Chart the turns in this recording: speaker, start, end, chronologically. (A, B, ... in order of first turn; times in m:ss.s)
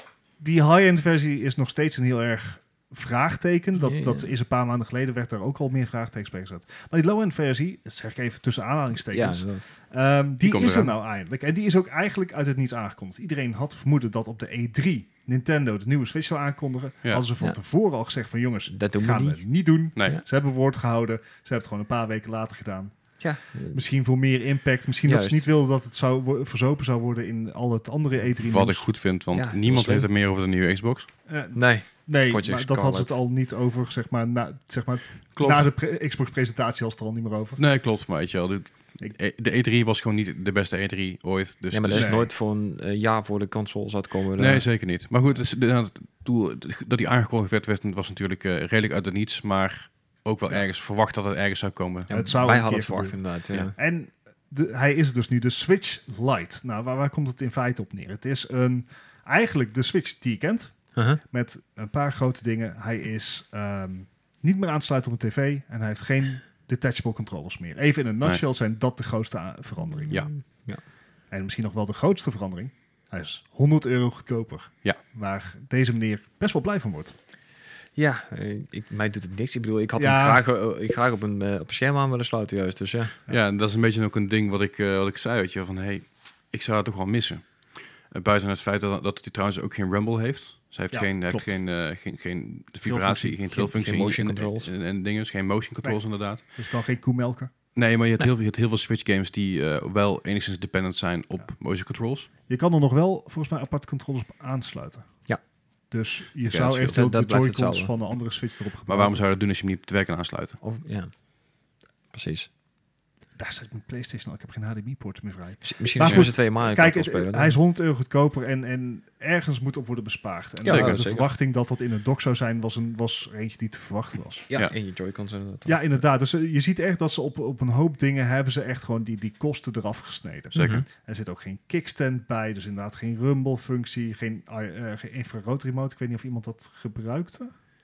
0:00.4-0:23.2 A
0:03.8-0:04.3 B
0:09.1-0:09.6 B
0:10.4-0:10.9 C
0:18.7-0:19.4 B
0:23.2-0:23.8 B
0:23.7-0:28.9 A
0:25.1-0:25.4 B
0:28.4-0:31.1 C
0:29.3-0:30.1 B
0:31.3-0:37.6 A
0:31.6-0:33.2 B
0:35.4-0:35.7 C
0:37.6-0:42.2 C
0:41.7-0:44.6 B
0:41.9-0:42.3 A
0:44.4-0:52.3 C
0:52.1-0:53.2 A
0:52.1-0:53.7 B
0:53.7-1:10.2 A
1:01.0-1:01.2 B
1:09.8-1:10.8 B
1:11.3-1:17.2 A
1:18.0-1:23.2 B
1:20.0-1:20.4 A
1:23.3-1:27.5 C
1:28.1-1:36.4 C
1:30.9-1:31.5 A
1:32.8-1:33.4 A
1:33.5-1:34.7 B
1:35.8-1:37.5 A
1:37.8-1:42.3 C
1:42.5-1:45.2 A
1:45.9-1:49.2 A
1:46.5-1:47.0 C
1:46.9-1:47.9 B
1:48.9-1:50.6 C
1:50.6-1:51.1 B
1:52.1-1:52.5 B
1:53.4-2:04.5 A
1:55.6-1:57.6 B
2:00.6-2:01.3 B
2:00.6-2:01.0 C
2:04.5-2:05.9 B
2:05.7-2:17.5 A
2:10.5-2:10.8 C
2:10.6-2:10.8 B